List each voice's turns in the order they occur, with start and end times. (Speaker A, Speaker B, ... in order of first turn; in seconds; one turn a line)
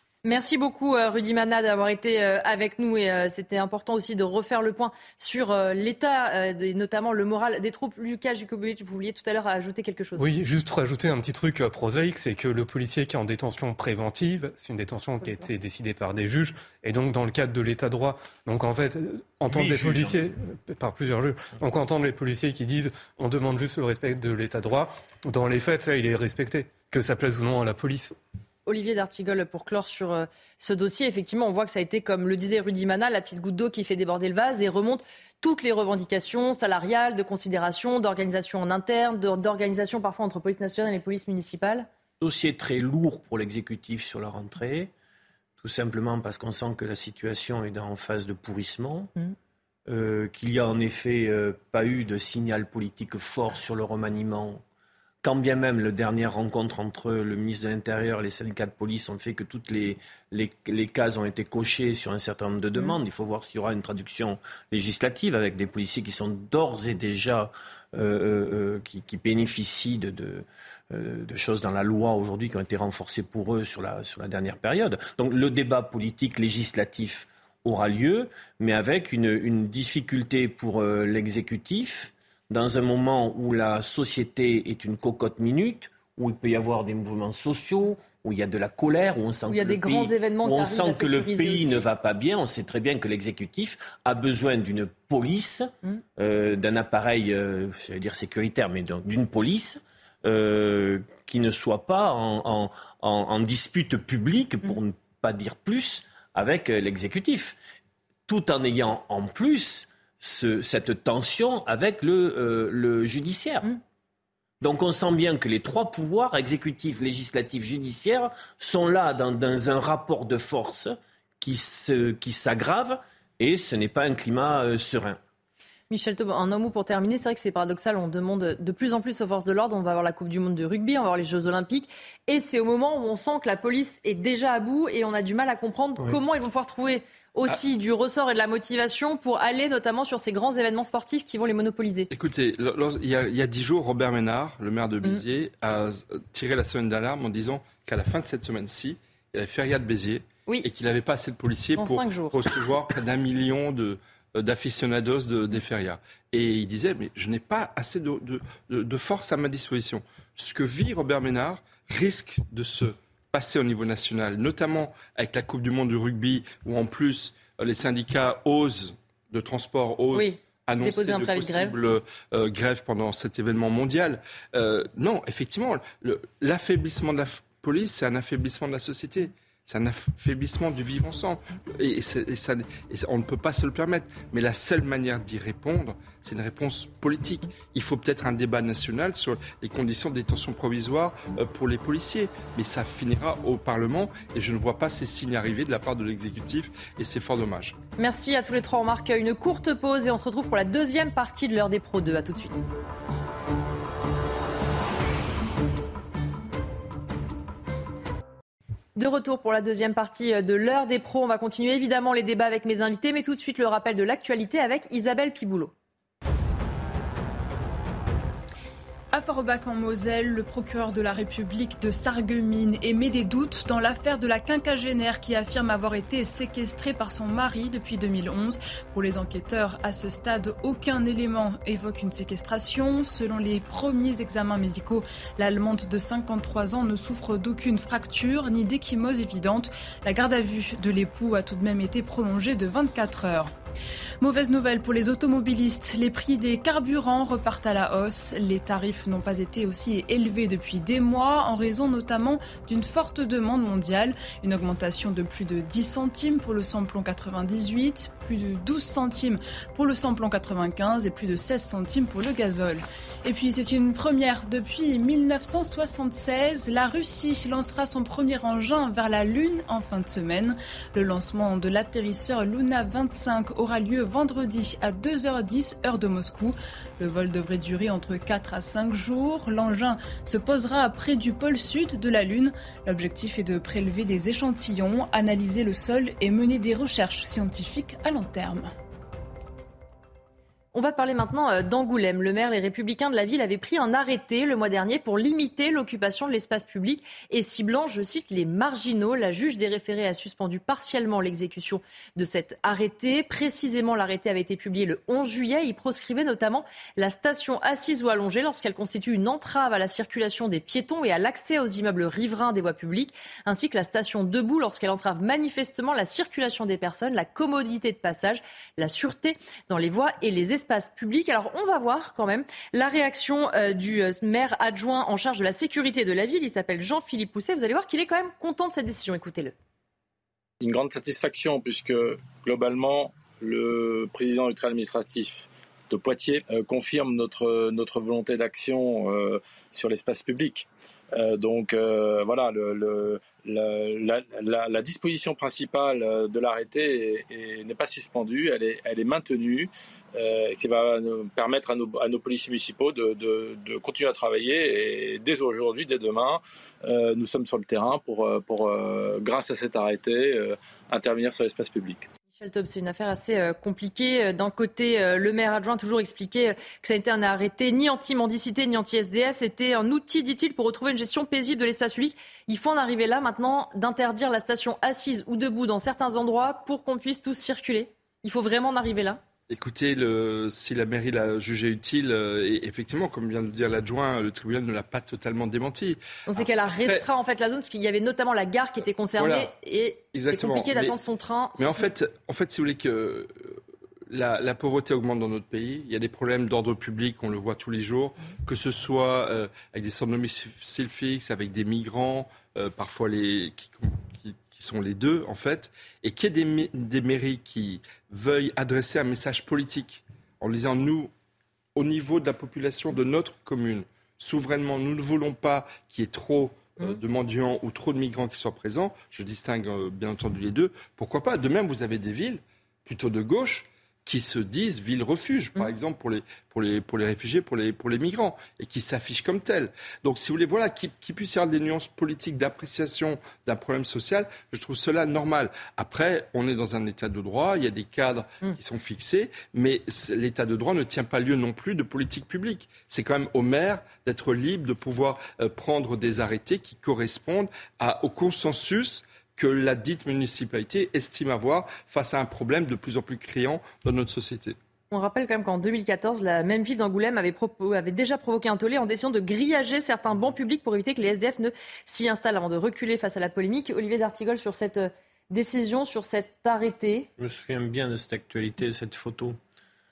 Speaker A: 0.2-10.2
Speaker B: 10.2-28.1
Speaker C: 19.5-20.3
Speaker A: 28.7-41.9
Speaker C: 42.2-44.9
Speaker C: 45.6-49.1
Speaker C: 49.9-54.6
Speaker C: 55.2-107.6
Speaker A: 89.5-91.8
Speaker C: 108.3-113.7
Speaker C: 114.6-125.2
Speaker A: 125.9-142.1
Speaker D: 142.1-197.8
Speaker A: 151.8-152.4
Speaker A: 170.1-171.8
Speaker A: 198.0-202.6
Speaker A: 209.0-215.7
Speaker E: 219.1-243.5
Speaker E: 244.2-288.7
Speaker A: 290.7-329.5
Speaker F: 330.6-362.1
Speaker A: 362.4-379.2
Speaker D: 379.5-387.1
Speaker A: 386.3-391.9
Speaker D: 389.2-389.5
Speaker D: 390.1-391.0
Speaker D: 391.6-411.1
Speaker D: 411.8-454.6
Speaker A: 454.9-467.1
Speaker C: 467.2-469.4